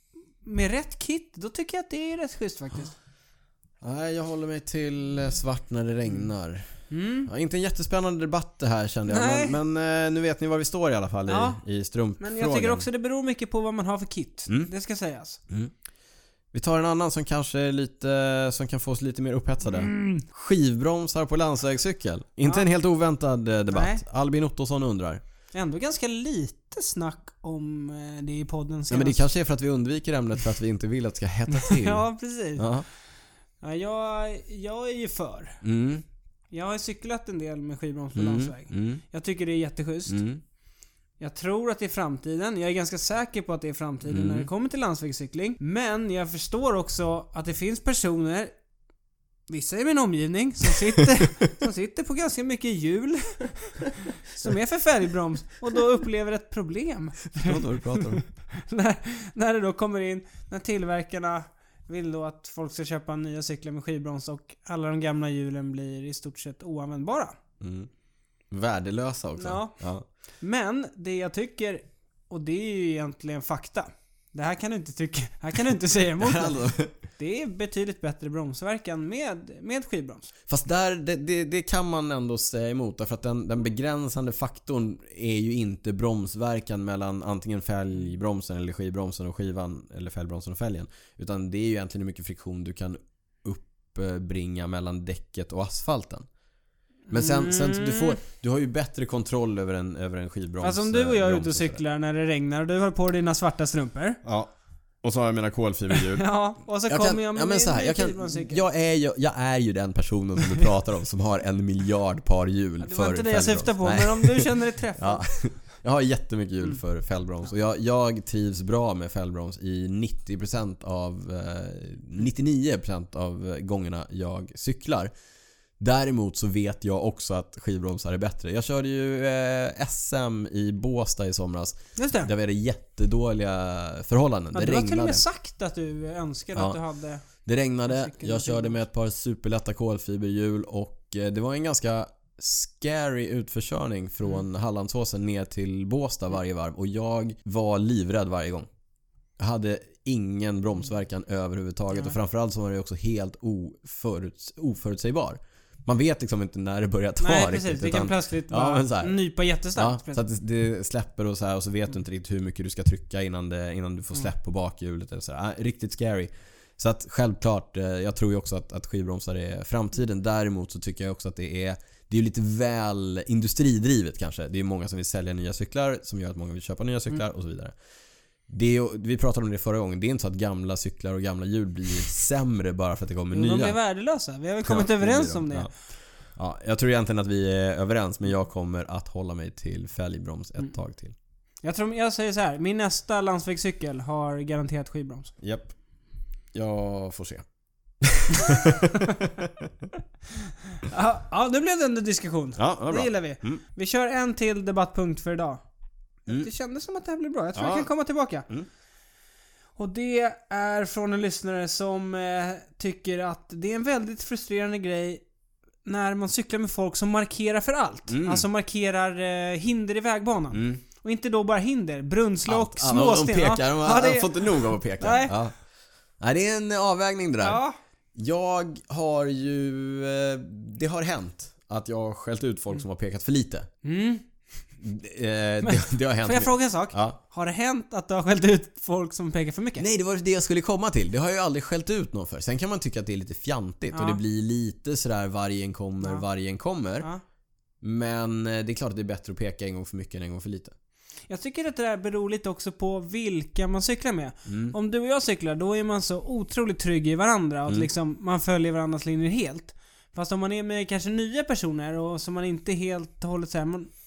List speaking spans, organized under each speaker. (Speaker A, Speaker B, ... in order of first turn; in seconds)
Speaker A: 0.4-2.9, 6.9-7.3, 9.1-9.6, 11.3-11.6, 12.2-15.4, 19.6-20.2, 23.7-24.0, 25.5-29.2, 31.5-32.7, 33.6-35.6, 36.5-40.2, 41.2-48.5, 49.5-67.3, 69.4-69.7, 70.4-76.6, 77.1-80.3, 97.1-98.2, 100.6-104.2, 105.9-108.6, 112.8-115.2, 131.9-132.3, 134.5-137.3, 137.9-138.8, 157.2-160.2, 183.3-185.7, 191.6-195.3, 200.8-205.6, 206.3-208.5, 209.8-215.2, 215.8-225.3, 227.4-227.8, 233.8-234.3, 235.6-239.8, 243.9-244.2, 251.3-263.9
Speaker B: 3.8-6.7, 7.3-12.9, 16.5-25.2, 28.9-32.9, 35.6-36.0, 38.1-39.0, 40.1-40.4, 44.1-44.5, 51.2-51.5, 57.4-58.2, 67.6-67.9, 68.5-70.0, 76.2-76.9, 80.5-96.3, 97.1-101.8, 104.2-104.5, 105.0-106.3, 106.9-125.1, 125.8-135.2, 137.4-148.7, 149.4-159.2, 159.8-177.7, 178.5-183.8, 184.6-185.7, 186.4-191.1, 195.4-195.7, 196.5-197.4, 198.0-199.9, 202.6-203.6, 207.6-207.9, 218.1-218.4, 220.5-220.8, 222.4-225.6, 226.2-227.6, 228.2-233.7, 234.8-237.2, 239.8-247.1, 247.8-250.7, 254.5-254.7